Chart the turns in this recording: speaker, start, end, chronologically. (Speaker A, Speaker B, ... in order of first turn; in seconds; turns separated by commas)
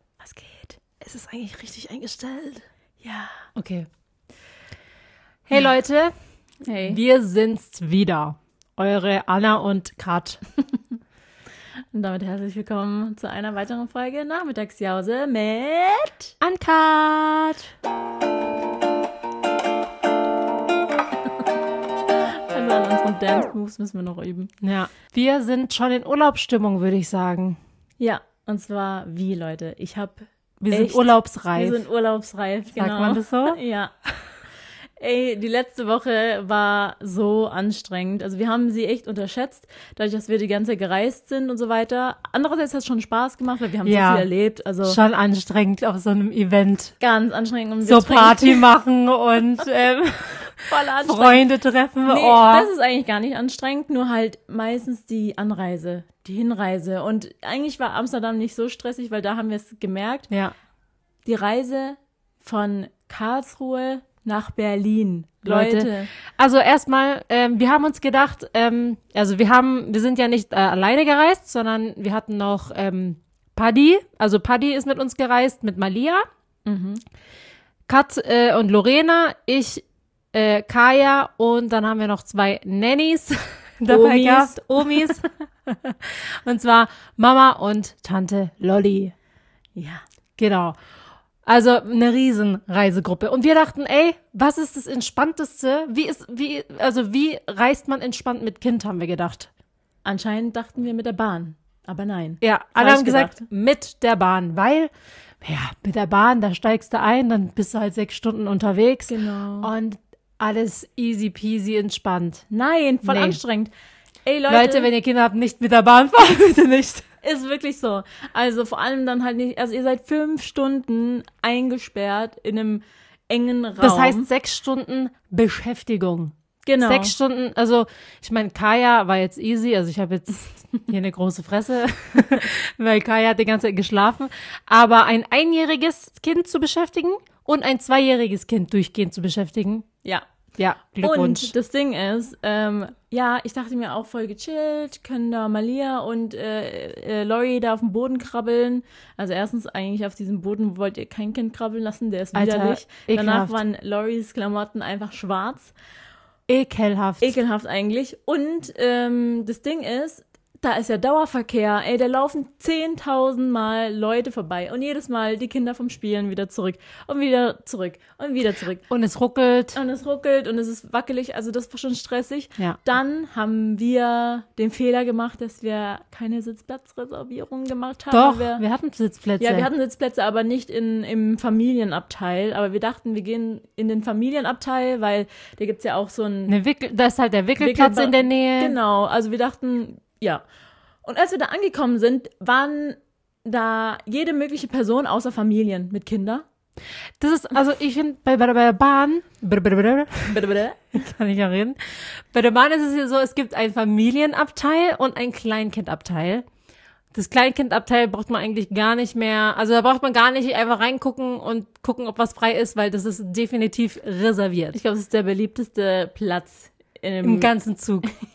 Speaker A: 0.2-0.8, Speaker B: 1.0-2.6, Speaker A: 3.0-3.4, Speaker B: 3.5-3.9, Speaker B: 5.5-6.1, Speaker A: 6.6-7.0, Speaker B: 6.8-10.4, Speaker A: 11.9-16.3, Speaker B: 16.4-17.7, Speaker A: 22.5-24.5, Speaker B: 24.6-27.6, Speaker A: 28.0-33.9, Speaker B: 30.6-31.8, Speaker B: 32.8-33.6, Speaker A: 35.0-45.0, Speaker B: 43.8-44.3, Speaker B: 44.8-46.9, Speaker A: 47.0-48.6, Speaker B: 47.8-52.7, Speaker A: 50.7-51.4, Speaker A: 52.0-60.3, Speaker B: 60.3-60.5, Speaker A: 61.2-66.1, Speaker B: 65.4-76.2, Speaker A: 76.7-77.0, Speaker B: 77.9-89.1, Speaker A: 83.9-85.3, Speaker A: 89.8-90.0, Speaker B: 90.4-90.8, Speaker B: 91.5-99.5, Speaker A: 100.0-103.3, Speaker B: 102.4-112.4, Speaker A: 109.1-109.7, Speaker A: 112.5-113.7, Speaker B: 113.0-113.4, Speaker A: 114.2-114.9, Speaker B: 114.5-117.0, Speaker A: 117.2-124.2, Speaker B: 123.8-139.9, Speaker A: 126.6-127.1, Speaker B: 140.6-141.5, Speaker A: 141.0-155.7, Speaker B: 152.3-153.6, Speaker B: 156.5-157.3, Speaker A: 157.2-168.8, Speaker B: 168.9-169.8, Speaker A: 169.7-178.6, Speaker B: 178.1-179.7, Speaker A: 179.4-186.5, Speaker B: 186.5-188.8, Speaker A: 187.6-190.4, Speaker A: 191.0-196.4, Speaker B: 197.2-200.4, Speaker A: 200.3-200.8, Speaker B: 200.9-206.4, Speaker B: 207.1-214.8, Speaker A: 214.7-217.5, Speaker B: 217.2-218.1